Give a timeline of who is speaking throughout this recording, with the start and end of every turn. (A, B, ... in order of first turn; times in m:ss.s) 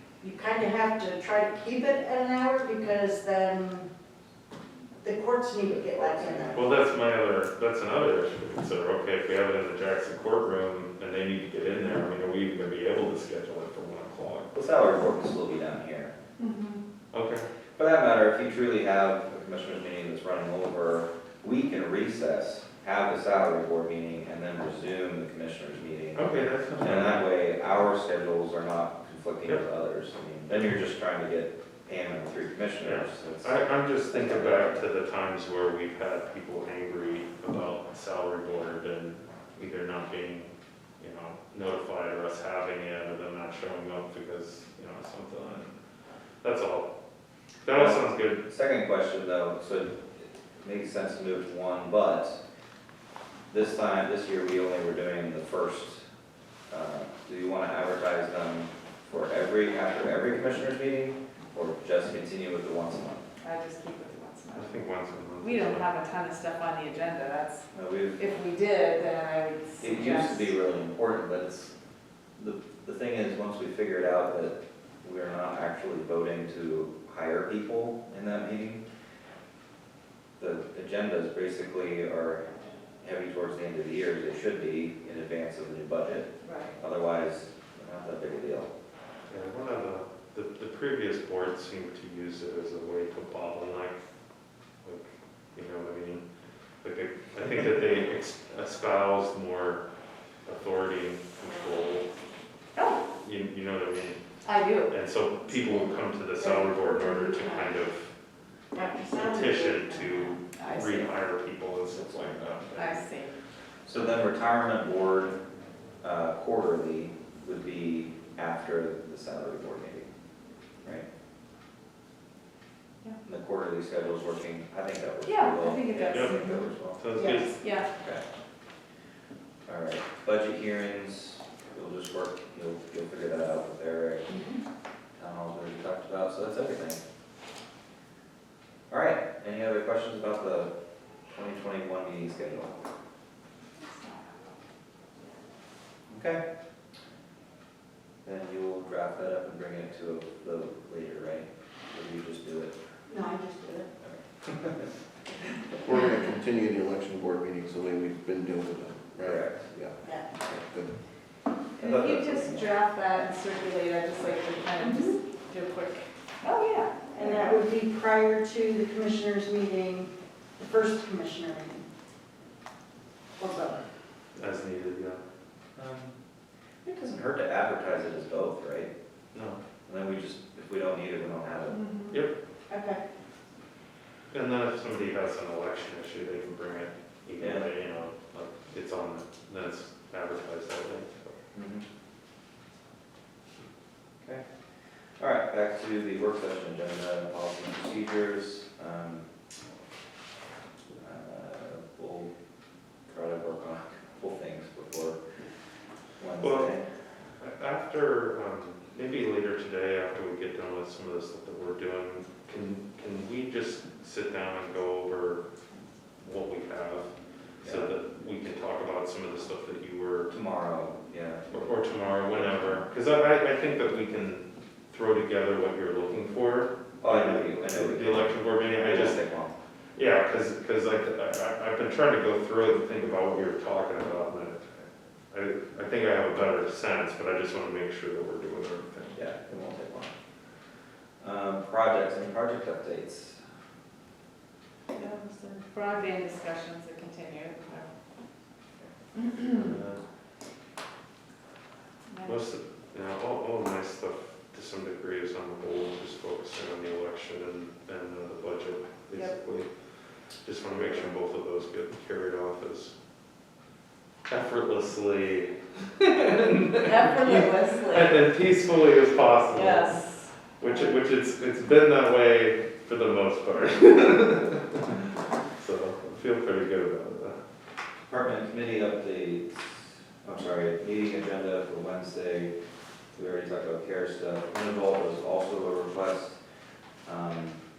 0:00.2-0:03.9 A
0:05.0-0:06.7 A
0:05.7-0:06.7 B
0:06.5-0:14.5 C
0:14.5-0:16.1 B
0:16.4-0:16.8 D
0:17.1-0:17.4 C
0:17.8-0:33.5 B
0:26.1-0:27.3 C
0:32.8-0:45.7 C
0:34.1-0:34.8 B
0:46.4-0:46.9 C
0:47.6-0:48.4 C
0:47.7-0:50.0 B
0:50.6-0:52.4 B
0:53.5-0:56.0 B
0:56.7-1:03.2 B
1:03.4-1:04.7 D
1:04.5-1:05.9 C
1:05.4-1:10.5 D
1:07.7-1:08.2 B
1:09.8-1:11.7 B
1:12.4-1:18.8 B
1:20.4-1:28.7 B
1:26.4-1:26.7 D
1:29.3-1:34.0 C
1:34.8-1:36.2 C
1:36.8-1:39.8 C
1:40.4-1:42.0 C
1:43.2-1:44.2 C
1:44.9-1:48.1 C
1:45.5-1:47.8 A
1:48.7-1:50.4 A
1:49.1-1:53.0 C
1:50.6-1:51.1 D
1:52.0-1:52.6 B
1:52.7-1:53.3 D
1:53.8-1:55.4 B
1:56.0-2:00.1 B
2:03.2-2:07.0 B
2:05.2-2:06.6 D
2:06.1-2:07.6 C
2:07.1-2:07.6 A
2:07.4-2:07.9 D
2:09.6-2:14.4 B
2:14.3-2:14.6 A
2:15.1-2:17.0 B
2:18.9-2:20.7 B
2:21.3-2:22.8 B
2:23.8-2:24.4 D
2:26.1-2:26.4 B
2:28.2-2:32.7 B
2:33.1-2:33.9 A
2:34.0-2:34.9 B
2:35.8-2:41.0 E
2:39.2-2:39.7 B
2:40.0-2:40.3 A
2:41.8-2:42.7 B
2:41.8-2:47.6 D
2:44.8-2:45.2 A
2:47.1-2:51.8 A
2:53.4-2:53.8 A
2:54.4-2:55.2 C
2:55.8-2:56.1 B
2:56.8-2:58.9 B
2:59.3-2:59.6 C
2:59.8-3:02.0 B
3:01.7-3:02.1 D
3:02.7-3:03.0 A
3:04.3-3:11.4 C
3:07.4-3:07.7 B
3:11.5-3:11.8 B
3:15.2-3:19.2 B
3:21.0-3:22.3 B
3:23.1-3:25.2 B
3:26.2-3:26.8 B
3:26.4-3:26.7 C
3:27.4-3:35.4 C
3:36.2-3:37.1 C
3:37.6-3:40.3 C
3:37.6-3:37.9 B
3:40.3-3:42.8 B
3:41.5-3:49.2 C
3:47.0-3:49.5 B
3:49.9-3:59.2 C
3:59.1-4:00.1 B
4:01.2-4:03.4 B
4:04.9-4:07.9 D
4:09.2-4:09.6 D
4:09.5-4:10.0 C
4:12.1-4:12.4 D
4:12.2-4:19.7 C
4:20.4-4:22.9 C
4:20.7-4:21.1 B
4:24.3-4:30.0 C
4:26.8-4:28.2 D
4:29.5-4:30.9 D
4:30.6-4:35.0 C
4:35.6-4:37.4 C
4:38.1-4:42.5 B
4:43.1-4:46.4 B
4:47.0-4:47.6 B